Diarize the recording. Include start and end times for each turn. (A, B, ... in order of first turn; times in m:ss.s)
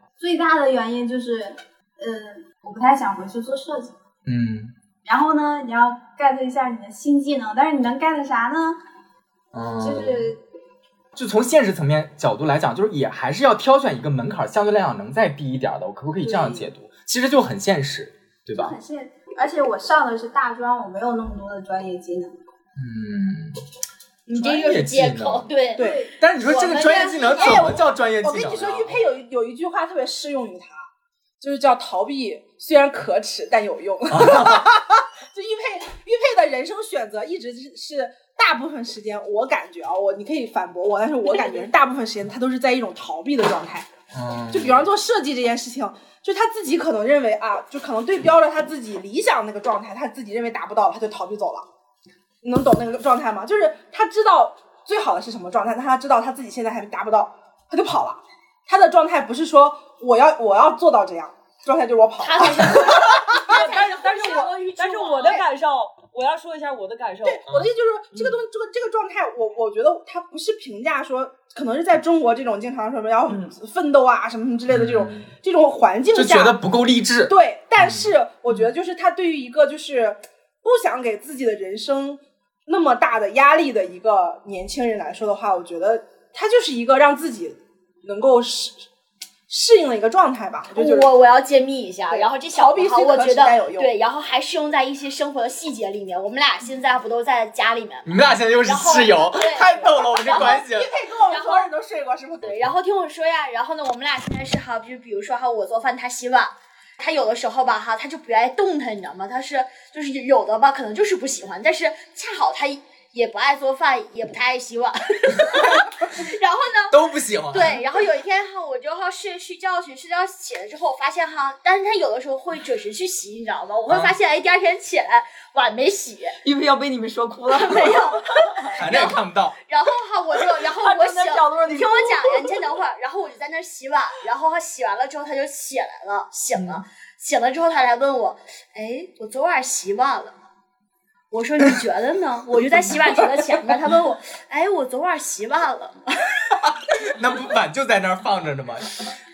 0:00.2-0:04.0 A
0:04.3-0:04.7 B
0:05.0-0:08.8 A
0:09.5-0:10.3 B
0:09.8-0:10.4 A
0:11.2-0:18.7 B
0:16.3-0:16.6 A
0:18.6-0:22.3 A
0:22.8-0:23.5 B
0:24.3-0:27.8 C
0:24.4-0:25.5 B
0:25.8-0:26.1 D
0:25.8-0:26.1 A
0:26.2-0:29.0 B
0:26.7-0:27.7 A
0:27.3-0:30.8 D
0:31.4-0:43.9 D
0:34.1-0:34.7 B
0:44.1-0:44.9 B
0:44.5-0:51.7 D
0:52.4-1:03.8 D
1:02.2-1:05.5 C
1:03.2-1:07.5 E
1:07.2-1:16.6 D
1:13.3-1:13.5 E
1:14.7-1:15.3 B
1:16.1-1:18.1 B
1:17.3-1:28.9 D
1:29.5-1:31.1 D
1:30.8-1:41.7 C
1:32.1-1:33.9 D
1:38.0-1:40.9 B
1:40.2-1:42.6 D
1:42.4-1:57.0 C
1:56.9-1:57.8 B
1:57.5-2:06.4 C
2:03.9-2:04.2 B
2:06.4-2:08.7 E
2:07.5-2:20.3 C
2:08.7-2:09.6 B
2:10.8-2:12.5 E
2:16.6-2:16.8 E
2:21.3-2:26.4 C
2:26.6-2:29.1 B